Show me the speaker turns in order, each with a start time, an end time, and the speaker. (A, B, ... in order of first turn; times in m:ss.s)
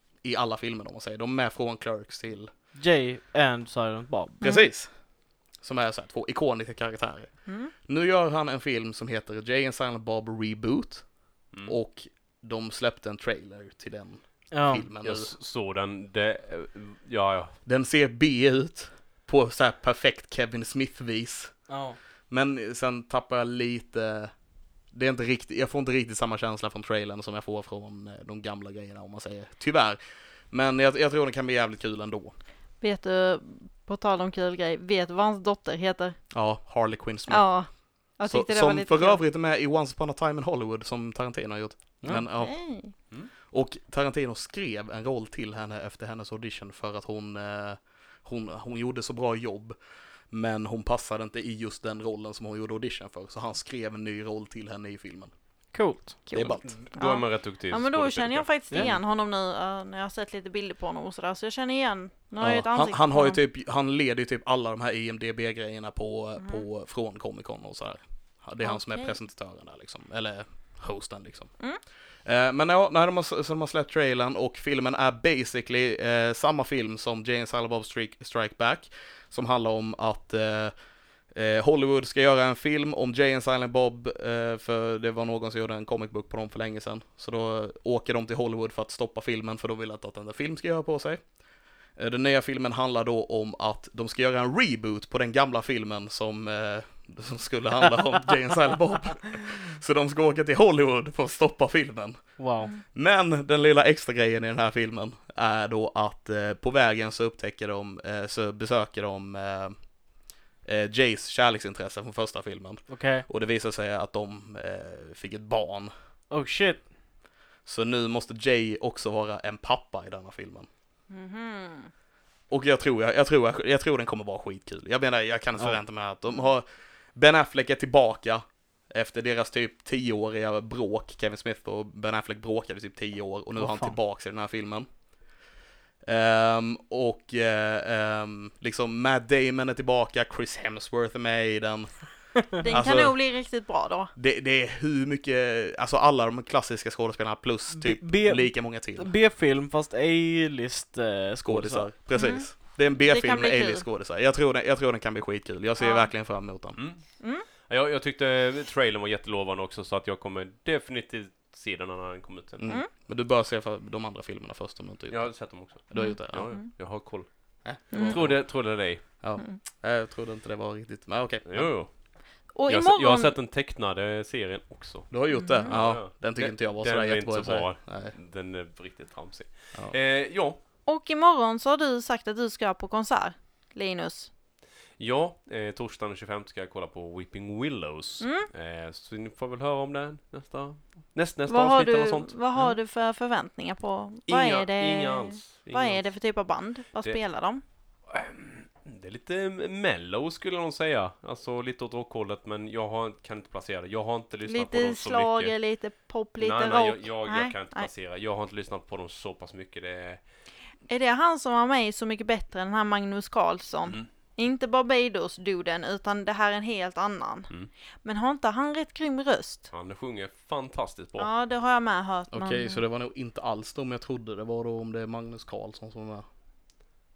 0:00.2-0:02.5 A
0:02.8-0:04.4 B
0:04.4-0:15.3 A
0:07.5-0:07.7 C
0:14.5-0:14.9 B
0:15.0-0:17.6 D
0:17.6-0:21.6 A
0:21.7-0:22.0 B
0:22.3-0:24.3 A
0:24.9-0:30.0 A
0:30.5-0:32.3 A
0:32.8-0:36.2 C
0:36.3-0:37.6 A
0:37.3-0:39.2 C
0:38.3-0:42.6 A
0:42.2-0:42.9 C
0:43.4-0:49.8 A
0:50.3-0:55.3 A
0:55.7-0:56.2 B
0:56.3-1:03.4 C
0:56.3-0:56.8 A
0:56.6-0:58.5 D
1:02.4-1:11.6 A
1:08.6-1:09.2 C
1:12.2-1:20.7 A
1:21.3-1:31.2 A
1:32.0-1:50.0 A
1:42.4-1:42.7 B
1:50.6-1:55.9 A
1:52.9-1:53.2 B
1:56.3-1:56.9 B
1:57.6-2:00.7 A
2:01.1-2:01.9 C
2:02.5-2:14.9 A
2:13.6-2:14.0 B
2:16.0-2:23.2 A
2:22.6-2:24.1 C
2:24.2-2:29.1 A
2:27.7-2:31.9 B
2:31.4-2:36.8 A
2:32.1-2:32.5 C
2:33.0-2:33.8 C
2:35.8-2:36.1 C
2:36.8-2:42.6 D
2:37.2-2:37.4 C
2:42.6-2:46.5 A
2:45.1-2:49.0 D
2:45.9-2:46.7 C
2:47.6-2:51.8 A
2:47.9-2:48.2 C
2:51.5-2:52.1 D
2:52.5-2:53.3 C
2:52.7-3:00.6 D
2:55.1-2:58.1 A
2:55.3-2:55.7 C
3:00.9-3:04.3 C
3:05.0-3:12.4 D
3:08.2-3:08.5 C
3:11.5-3:17.6 C
3:14.3-3:16.1 D
3:18.1-3:25.5 D
3:24.5-3:27.9 C
3:26.4-3:30.2 D
3:30.9-3:37.5 C
3:38.0-3:39.7 C
3:39.7-3:41.3 D
3:41.2-3:42.8 C
3:42.3-3:46.2 A